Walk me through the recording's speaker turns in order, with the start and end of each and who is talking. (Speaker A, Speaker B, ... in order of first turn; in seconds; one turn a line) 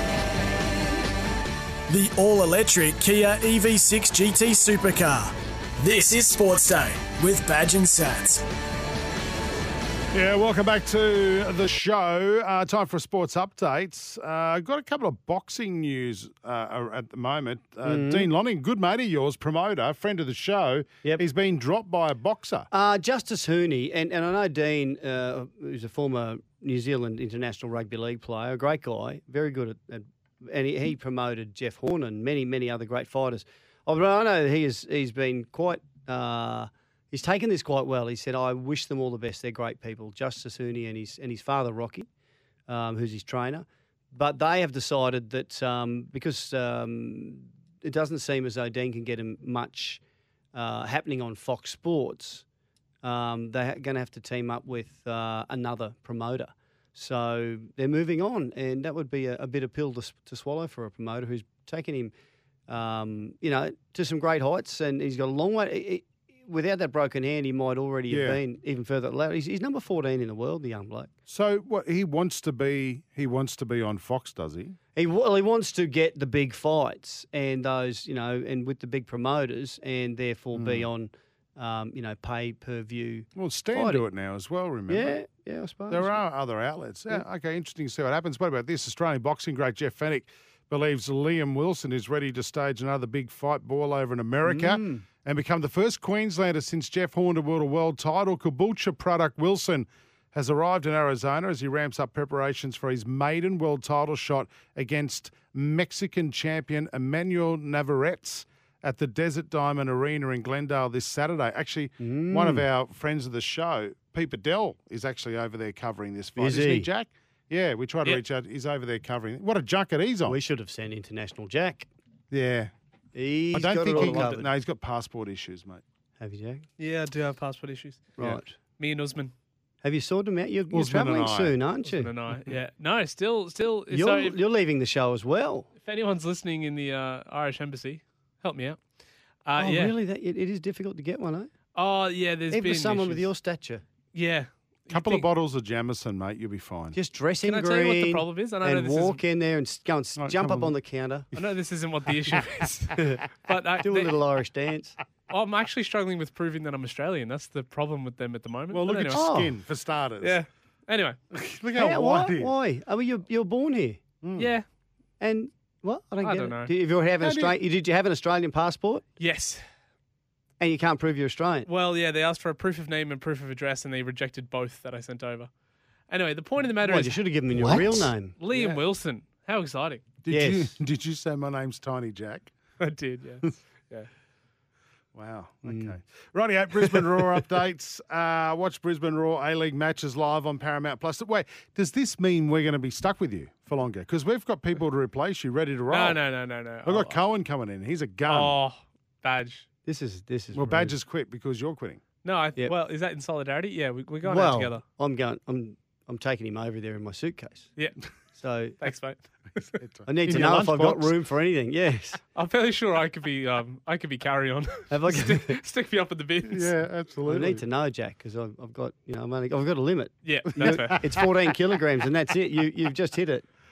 Speaker A: 1.9-8.4
Speaker B: 10.1-22.7
Speaker C: 17.8-18.3
Speaker C: 22.7-42.1
Speaker C: 42.7-50.0
Speaker C: 50.5-52.4
Speaker C: 53.0-62.1
Speaker C: 62.7-71.1
Speaker B: 68.1-68.4
Speaker B: 71.3-74.8
Speaker C: 75.0-84.0
Speaker B: 80.5-80.9
Speaker B: 83.3-85.2
Speaker C: 84.9-86.2
Speaker B: 85.9-120.4
Speaker C: 94.4-95.0
Speaker C: 112.0-112.6
Speaker C: 116.4-116.9
Speaker C: 120.3-121.9
Speaker B: 122.3-122.7
Speaker C: 123.1-124.5
Speaker B: 123.5-125.8
Speaker D: 123.8-124.4
Speaker C: 126.2-126.7
Speaker D: 126.8-129.3
Speaker C: 128.2-128.6
Speaker C: 129.8-132.1
Speaker B: 130.7-131.5
Speaker D: 131.8-134.4
Speaker C: 133.9-135.7
Speaker D: 135.8-138.8
Speaker D: 139.4-139.9
Speaker C: 139.6-141.5
Speaker D: 141.7-143.2
Speaker C: 142.5-143.8
Speaker D: 144.1-145.3
Speaker B: 144.9-146.9
Speaker C: 146.9-151.3
Speaker D: 147.4-149.2
Speaker B: 150.2-150.7
Speaker D: 151.3-154.2
Speaker C: 153.0-153.2
Speaker C: 153.8-155.0
Speaker D: 155.3-159.3
Speaker B: 158.7-160.4
Speaker C: 159.1-159.5
Speaker D: 160.2-161.2
Speaker B: 161.3-162.5
Speaker C: 161.8-164.0
Speaker B: 164.2-164.5
Speaker D: 164.4-164.7
Speaker C: 165.2-169.1
Speaker D: 166.2-166.7
Speaker B: 167.2-167.6
Speaker D: 169.2-169.7
Speaker C: 170.6-171.7
Speaker D: 171.7-175.5
Speaker D: 176.1-177.2
Speaker C: 176.8-178.8
Speaker D: 178.4-180.1
Speaker B: 180.2-182.5
Speaker C: 180.3-180.7
Speaker D: 182.8-184.1
Speaker B: 185.1-196.2
Speaker C: 185.6-186.0
Speaker C: 186.8-187.3
Speaker D: 195.9-197.2
Speaker B: 196.8-198.6
Speaker D: 198.3-199.7
Speaker C: 199.8-200.9
Speaker B: 200.5-202.0
Speaker D: 202.2-204.8
Speaker C: 204.2-207.7
Speaker C: 208.3-208.8
Speaker D: 208.8-209.8
Speaker B: 209.8-211.1
Speaker C: 210.1-212.2
Speaker D: 212.3-216.7
Speaker C: 214.9-215.6
Speaker B: 216.4-217.6
Speaker C: 217.2-223.4
Speaker D: 220.2-221.1
Speaker B: 220.6-221.0